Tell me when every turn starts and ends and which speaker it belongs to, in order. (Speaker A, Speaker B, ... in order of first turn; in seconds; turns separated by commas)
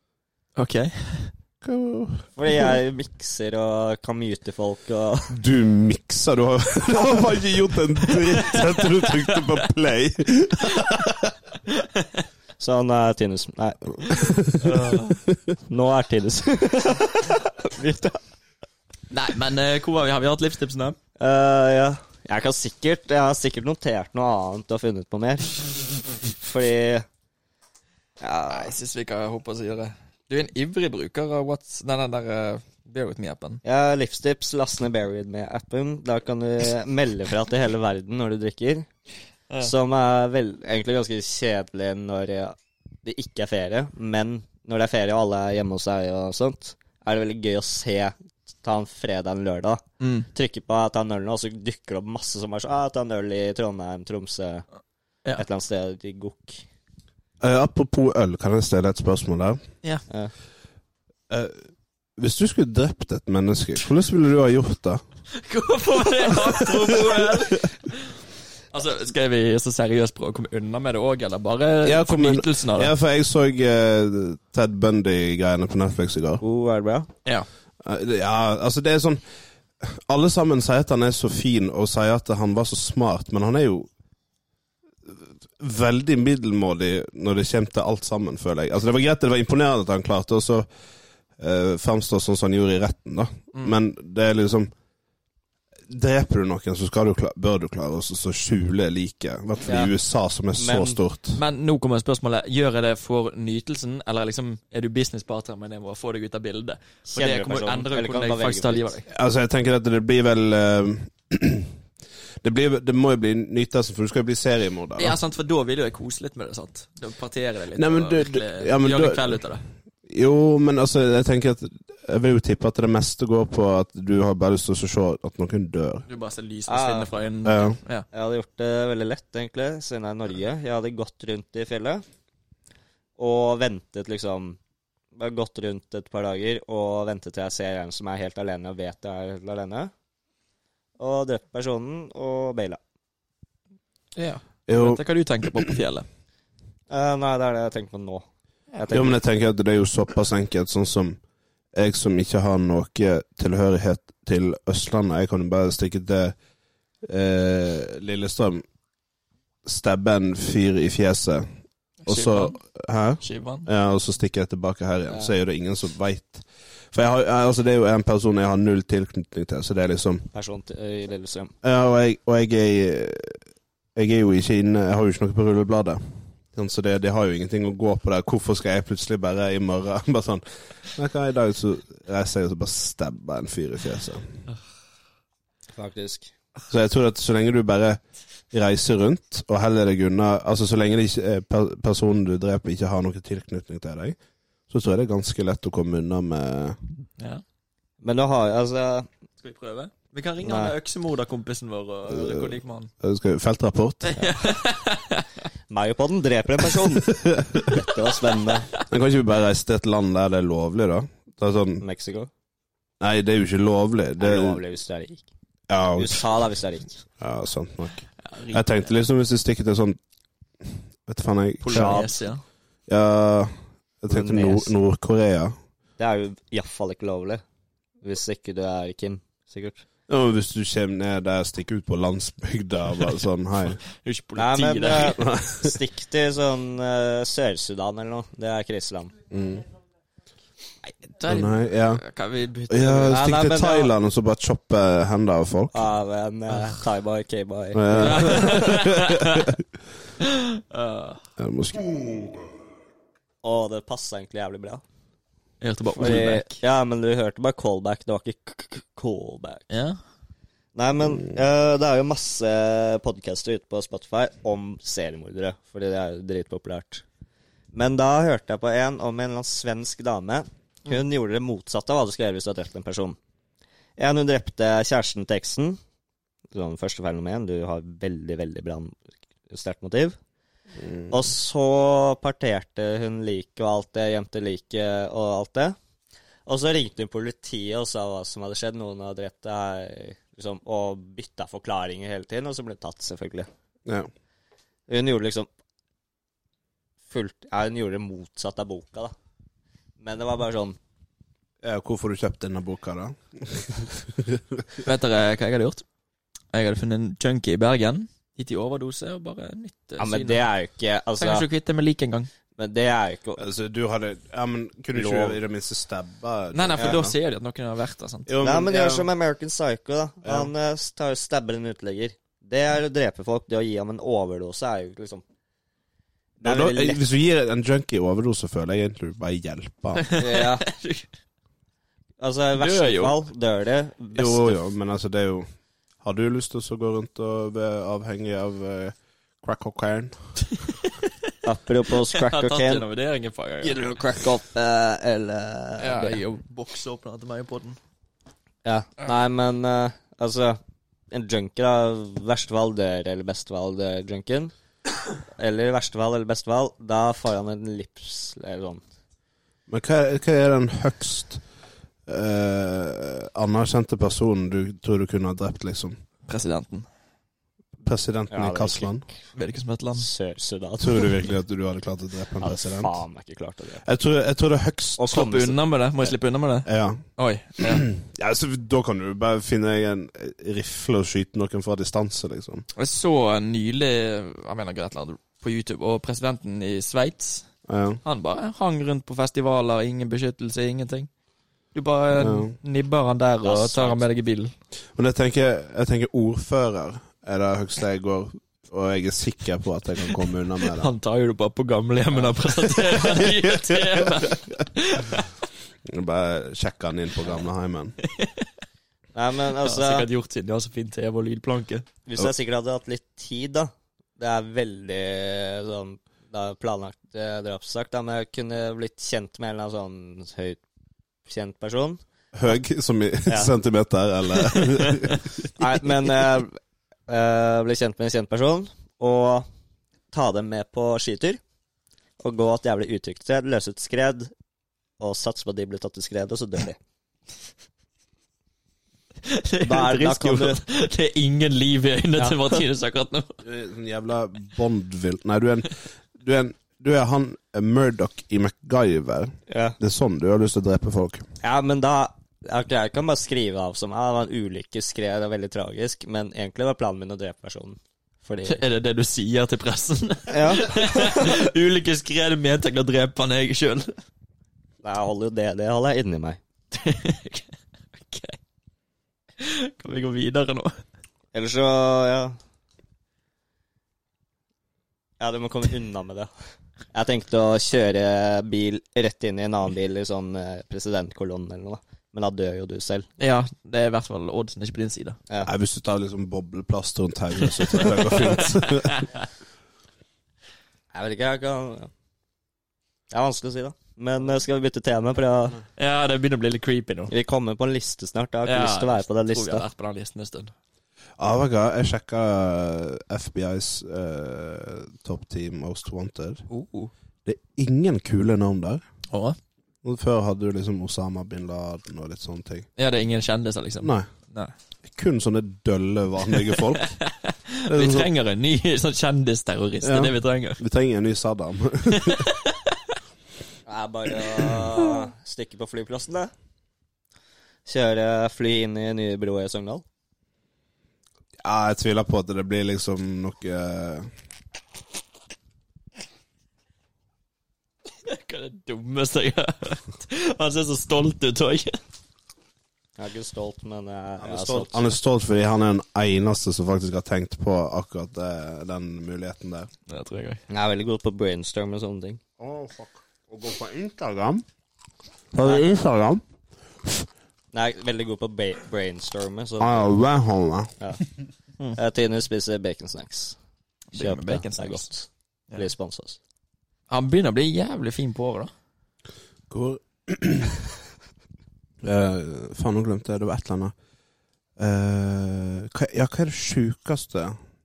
Speaker A: 0.6-1.3, Speaker B: 1.6-2.2, Speaker C: 2.4-5.4, Speaker B: 5.3-11.3, Speaker A: 8.4-9.5, Speaker A: 11.7-12.2, Speaker C: 12.6-14.2, Speaker B: 14.1-14.9, Speaker A: 14.6-15.2, Speaker C: 15.7-18.2, Speaker A: 19.1-21.0, Speaker C: 21.2-27.1, Speaker C: 28.2-28.7, Speaker A: 28.5-33.6, Speaker C: 33.6-38.9, Speaker C: 39.6-49.8, Speaker A: 50.0-50.3, Speaker C: 50.3-54.6, Speaker C: 55.4-56.6, Speaker B: 57.4-59.6, Speaker B: 61.3-65.0, Speaker A: 65.3-68.2, Speaker B: 66.4-67.6, Speaker A: 68.7-72.9, Speaker B: 71.8-76.4, Speaker C: 76.4-77.1, Speaker B: 77.8-79.2, Speaker B: 79.8-83.9, Speaker B: 85.0-90.7, Speaker B: 91.4-94.7, Speaker B: 95.9-101.4, Speaker C: 99.7-99.9, Speaker C: 100.6-101.0, Speaker A: 101.3-109.1, Speaker C: 107.1-109.0, Speaker B: 109.1-111.7, Speaker B: 112.4-115.2, Speaker A: 115.0-119.6, Speaker B: 117.8-119.4, Speaker B: 120.1-126.1, Speaker A: 126.1-128.1, Speaker C: 126.7-127.1, Speaker B: 127.5-127.8, Speaker C: 128.1-132.0, Speaker C: 133.2-134.6, Speaker C: 135.2-139.9, Speaker C: 141.0-142.8, Speaker A: 144.2-146.1, Speaker B: 144.7-145.0, Speaker C: 146.9-149.2, Speaker B: 148.9-151.2, Speaker B: 151.8-156.3, Speaker B: 157.0-158.6, Speaker B: 159.7-161.5, Speaker A: 162.1-162.6, Speaker B: 162.1-170.3, Speaker A: 163.2-163.7, Speaker C: 170.3-171.5, Speaker B: 171.6-173.4, Speaker B: 173.9-176.0, Speaker B: 176.5-184.3, Speaker C: 185.8-186.3, Speaker B: 186.7-188.0, Speaker B: 188.5-194.2, Speaker B: 194.7-196.8, Speaker C: 198.0-199.1, Speaker A: 199.4-202.9, Speaker C: 200.4-200.7, Speaker B: 202.1-204.2, Speaker A: 204.1-205.3, Speaker C: 204.2-204.5, Speaker C: 205.7-208.7, Speaker B: 207.1-207.7, Speaker B: 208.8-211.8, Speaker C: 211.8-212.3, Speaker B: 213.0-214.6, Speaker C: 214.2-215.3, Speaker B: 215.7-216.2, Speaker C: 216.0-217.1, Speaker B: 217.2-220.0, Speaker A: 218.3-218.7, Speaker B: 220.6-222.0, Speaker A: 221.6-222.4, Speaker C: 221.7-222.2, Speaker B: 222.9-225.6, Speaker C: 224.1-224.7, Speaker C: 226.0-227.4, Speaker C: 228.0-229.8, Speaker B: 230.1-233.8, Speaker A: 234.0-235.2, Speaker C: 234.4-239.1, Speaker B: 235.1-235.8, Speaker B: 239.3-239.7, Speaker A: 240.8-243.2, Speaker B: 241.3-242.0, Speaker B: 242.7-245.9, Speaker C: 243.1-243.9, Speaker C: 245.7-248.7, Speaker B: 247.7-249.6, Speaker A: 248.0-249.5, Speaker A: 250.2-251.2, Speaker B: 251.4-252.2, Speaker C: 253.4-254.8, Speaker A: 255.6-256.6, Speaker C: 256.0-259.7, Speaker A: 259.7-260.0, Speaker C: 260.8-267.0, Speaker C: 267.7-273.2, Speaker C: 274.0-275.8, Speaker C: 276.5-280.2, Speaker B: 280.8-281.1, Speaker C: 281.1-285.8, Speaker C: 286.5-293.5, Speaker C: 294.9-295.5, Speaker C: 297.1-299.1, Speaker C: 300.0-300.8, Speaker B: 301.6-304.6, Speaker A: 304.8-305.8, Speaker A: 306.5-310.4, Speaker C: 310.0-311.4, Speaker A: 311.2-312.3, Speaker C: 312.6-313.4, Speaker B: 313.4-317.2, Speaker C: 314.9-315.4, Speaker A: 316.5-318.3, Speaker B: 318.3-319.1, Speaker C: 318.4-325.2, Speaker B: 320.2-320.5, Speaker C: 326.4-327.0, Speaker B: 326.4-330.1, Speaker A: 330.0-331.1, Speaker C: 330.2-330.7, Speaker C: 332.2-334.6, Speaker A: 332.6-333.2, Speaker B: 334.1-335.5, Speaker B: 336.0-340.2, Speaker C: 341.4-342.9, Speaker A: 342.0-344.0, Speaker C: 343.6-346.2, Speaker A: 345.8-347.8, Speaker C: 348.6-350.6, Speaker C: 351.1-354.5, Speaker C: 355.4-358.8, Speaker B: 359.7-361.4, Speaker B: 362.1-366.0, Speaker A: 366.3-366.9, Speaker B: 367.8-369.1, Speaker C: 368.3-368.9, Speaker A: 369.4-370.1, Speaker C: 370.0-371.1, Speaker B: 370.8-373.0, Speaker C: 372.4-373.8, Speaker B: 373.8-375.1, Speaker C: 375.0-375.6, Speaker A: 375.1-377.9, Speaker B: 376.7-377.0, Speaker B: 377.6-382.6, Speaker A: 382.8-387.5, Speaker B: 387.7-388.0, Speaker A: 388.1-391.1, Speaker A: 391.8-394.5, Speaker B: 392.1-392.5, Speaker C: 393.4-394.1, Speaker B: 395.0-400.9, Speaker A: 400.7-405.3, Speaker B: 403.1-404.4, Speaker B: 405.9-408.0, Speaker A: 408.0-408.5, Speaker C: 409.1-410.1, Speaker A: 409.6-411.9, Speaker C: 412.1-420.6, Speaker C: 421.3-422.6, Speaker B: 422.3-425.4, Speaker C: 423.3-423.5, Speaker C: 425.6-429.5, Speaker C: 430.1-431.4, Speaker C: 432.2-434.3, Speaker C: 435.0-436.8, Speaker A: 439.3-443.3, Speaker C: 439.6-440.6, Speaker C: 442.2-442.6, Speaker B: 443.4-451.2, Speaker C: 449.5-449.8, Speaker C: 451.4-458.6, Speaker A: 458.5-463.9, Speaker C: 460.3-461.3, Speaker C: 464.8-466.4, Speaker A: 466.7-468.4, Speaker A: 469.4-470.8, Speaker C: 471.3-472.4, Speaker C: 475.2-476.3, Speaker C: 476.9-483.1, Speaker A: 483.2-485.2, Speaker B: 485.4-489.1, Speaker A: 487.8-489.1, Speaker C: 490.9-491.9, Speaker C: 493.1-495.6, Speaker A: 495.8-497.1, Speaker C: 497.1-499.7, Speaker A: 498.4-500.5, Speaker B: 501.2-506.4, Speaker A: 506.5-506.9, Speaker B: 507.2-508.8, Speaker B: 509.8-512.7, Speaker A: 512.8-514.5, Speaker B: 513.8-514.1, Speaker B: 514.8-516.9, Speaker A: 516.7-520.6, Speaker B: 517.7-518.1, Speaker B: 519.8-522.2, Speaker A: 521.9-522.8, Speaker C: 523.7-526.3, Speaker C: 527.7-529.8, Speaker B: 531.4-534.1, Speaker A: 538.0-541.8, Speaker C: 543.0-544.9, Speaker B: 544.2-549.7, Speaker A: 549.9-550.4, Speaker C: 550.5-552.2, Speaker B: 552.4-554.5, Speaker B: 555.3-556.2, Speaker C: 555.4-555.7, Speaker C: 557.5-559.9, Speaker B: 559.6-560.7, Speaker C: 561.7-563.4, Speaker A: 563.9-564.9, Speaker C: 564.0-566.2, Speaker A: 566.9-568.5, Speaker B: 569.5-570.6, Speaker B: 571.8-573.7, Speaker B: 574.6-577.4